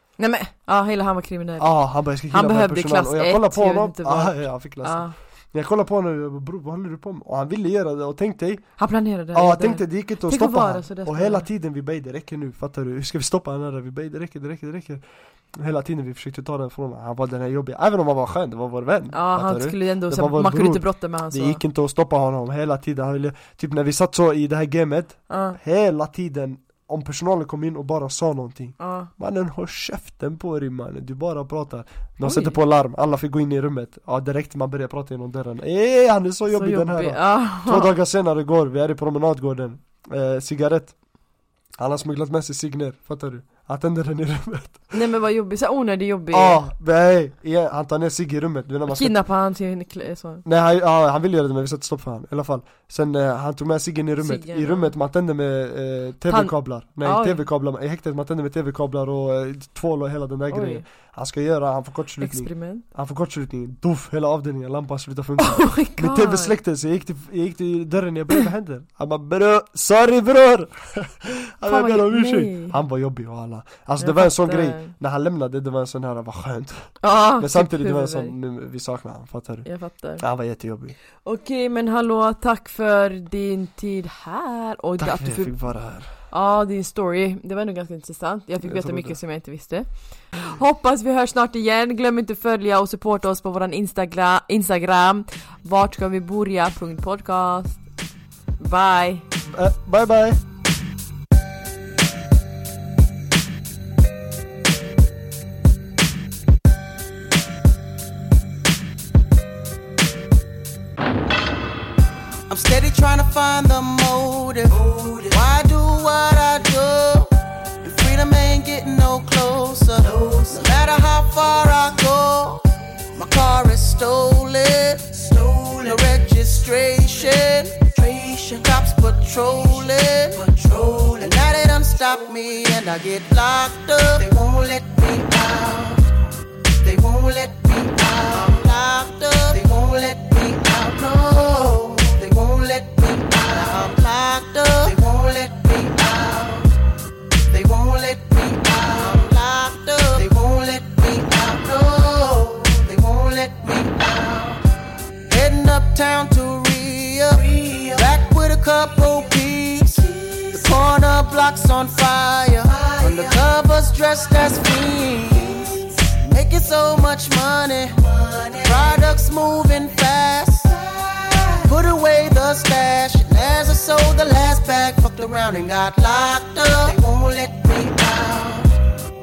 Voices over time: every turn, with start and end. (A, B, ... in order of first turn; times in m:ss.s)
0:00.2-0:01.8 A
0:01.6-0:08.7 B
0:02.3-0:05.1 A
0:08.8-0:11.5 A
0:09.3-0:41.0 B
0:19.1-0:21.6 A
0:25.3-0:25.6 A
0:28.8-0:29.1 A
0:32.2-0:32.6 A
0:36.5-0:37.9 A
0:41.8-0:45.0 B
0:44.9-0:46.7 A
0:46.3-0:49.2 B
0:48.9-0:50.4 A
0:50.4-1:21.0 B
0:54.2-0:54.9 A
0:56.3-0:57.4 A
1:00.5-1:00.8 A
1:02.2-1:02.8 A
1:05.4-1:06.6 A
1:11.7-1:12.8 A
1:14.0-1:14.9 A
1:17.0-1:18.3 A
1:19.6-1:20.2 A
1:21.2-1:25.6 A
1:25.0-1:26.1 B
1:26.3-1:37.8 A
1:28.6-1:29.2 B
1:38.6-1:39.3 A
1:39.5-1:40.4 B
1:52.5-2:16.1 C
2:16.8-2:26.7 C
2:27.5-2:34.6 C
2:35.3-2:58.7 C